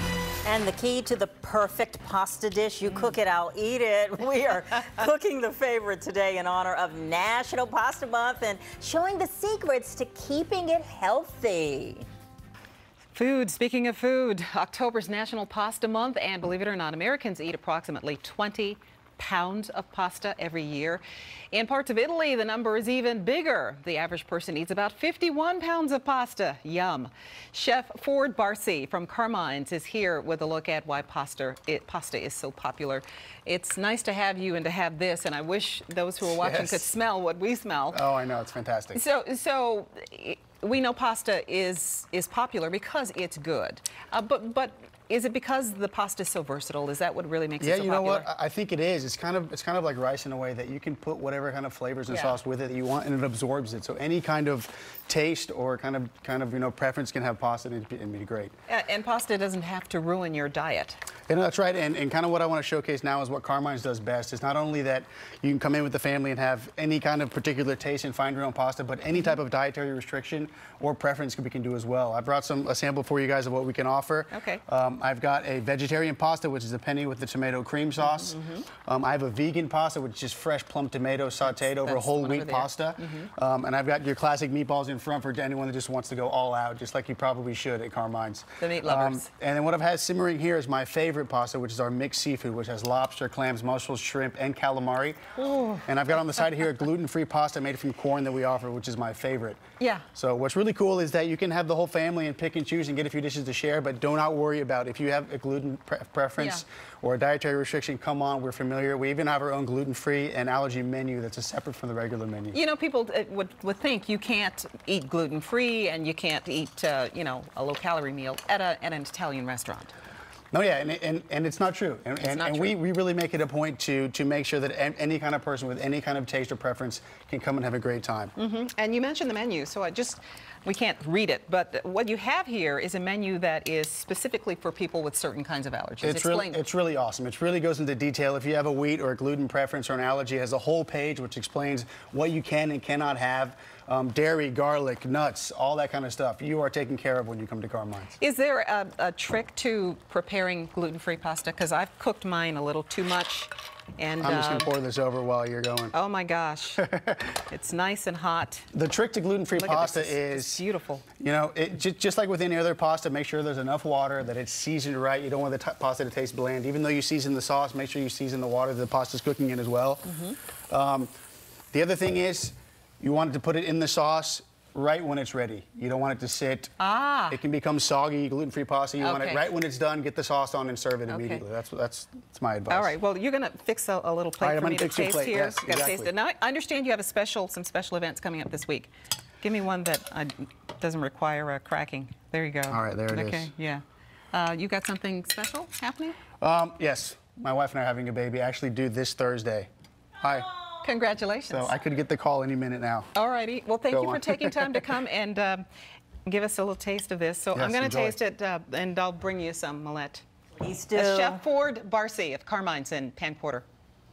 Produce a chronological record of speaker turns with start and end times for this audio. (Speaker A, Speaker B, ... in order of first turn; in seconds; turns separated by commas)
Speaker A: 0.4-12.0, Speaker B: 13.1-38.0, Speaker C: 36.2-36.9, Speaker C: 37.9-39.0, Speaker B: 38.9-48.3, Speaker C: 47.6-58.5, Speaker B: 52.1-52.4, Speaker B: 58.7-61.0, Speaker C: 61.3-99.6, Speaker B: 74.3-74.6, Speaker B: 78.0-78.6, Speaker B: 81.4-83.3, Speaker B: 88.6-89.3, Speaker B: 95.4-95.8, Speaker B: 99.8-100.0, Speaker C: 100.1-112.6, Speaker B: 106.3-106.6, Speaker B: 112.5-119.9, Speaker C: 120.5-128.3, Speaker B: 122.2-122.8, Speaker B: 128.3-136.6, Speaker C: 136.0-148.2, Speaker B: 148.2-154.7, Speaker C: 154.2-155.9, Speaker B: 155.9-156.9, Speaker C: 156.8-157.4, Speaker B: 157.5-158.7, Speaker C: 158.7-160.7, Speaker B: 159.5-161.1, Speaker C: 161.2-171.1, Speaker C: 171.7-176.7, Speaker B: 176.8-177.4, Speaker C: 177.3-182.9, Speaker B: 179.0-179.5, Speaker B: 181.1-181.4, Speaker B: 182.7-188.9, Speaker C: 184.4-186.1, Speaker B: 189.4-196.2, Speaker C: 192.7-193.5, Speaker C: 196.4-200.5, Speaker B: 200.8-201.8, Speaker C: 201.5-203.1, Speaker B: 203.1-205.6, Speaker C: 203.9-204.8, Speaker B: 206.2-210.2, Speaker C: 207.5-208.2, Speaker A: 210.6-211.4, Speaker B: 210.9-213.7